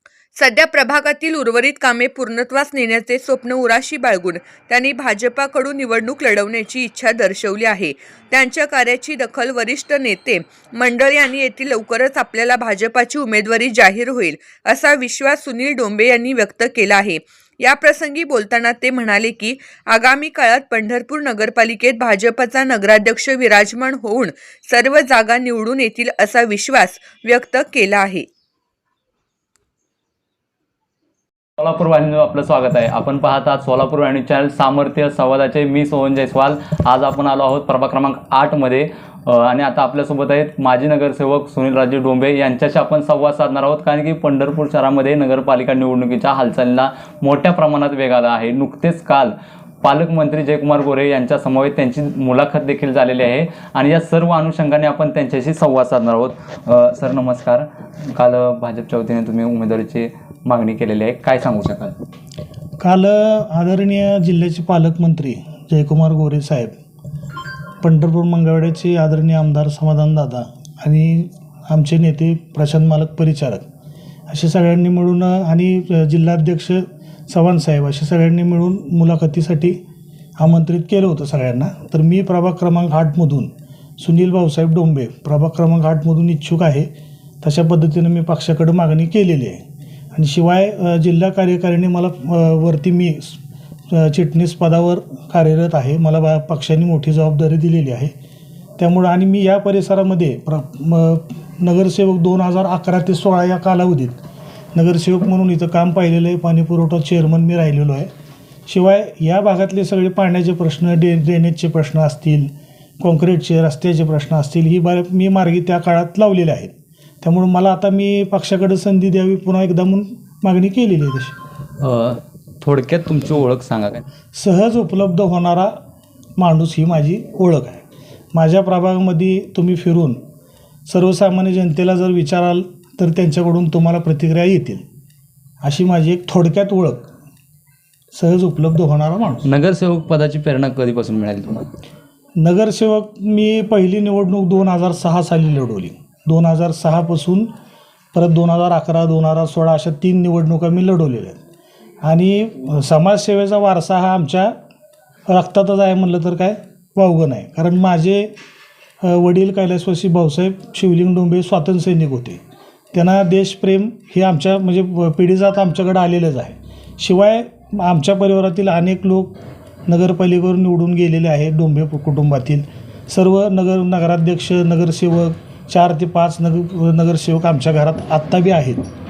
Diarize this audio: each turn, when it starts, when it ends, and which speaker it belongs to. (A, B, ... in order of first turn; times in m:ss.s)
0:00.4-0:28.2 A
0:31.6-1:01.9 B
1:02.8-1:06.7 C
1:07.8-1:13.6 C
1:14.3-1:19.8 C
1:20.4-1:26.9 C
1:27.4-1:29.6 C
1:30.1-1:38.1 C
1:38.8-1:44.2 C
1:44.7-1:48.1 C
1:48.7-2:01.4 C
2:01.8-2:04.0 B
2:04.3-2:05.7 C
2:06.4-2:10.2 C
2:10.9-2:14.8 C
2:15.6-2:17.1 C
2:18.1-2:19.5 C
2:19.4-2:21.7 B
2:22.4-2:27.5 C
2:28.1-2:31.4 C
2:32.0-2:34.5 C
2:35.3-2:38.3 C
2:39.0-2:42.4 C
2:42.9-2:58.8 C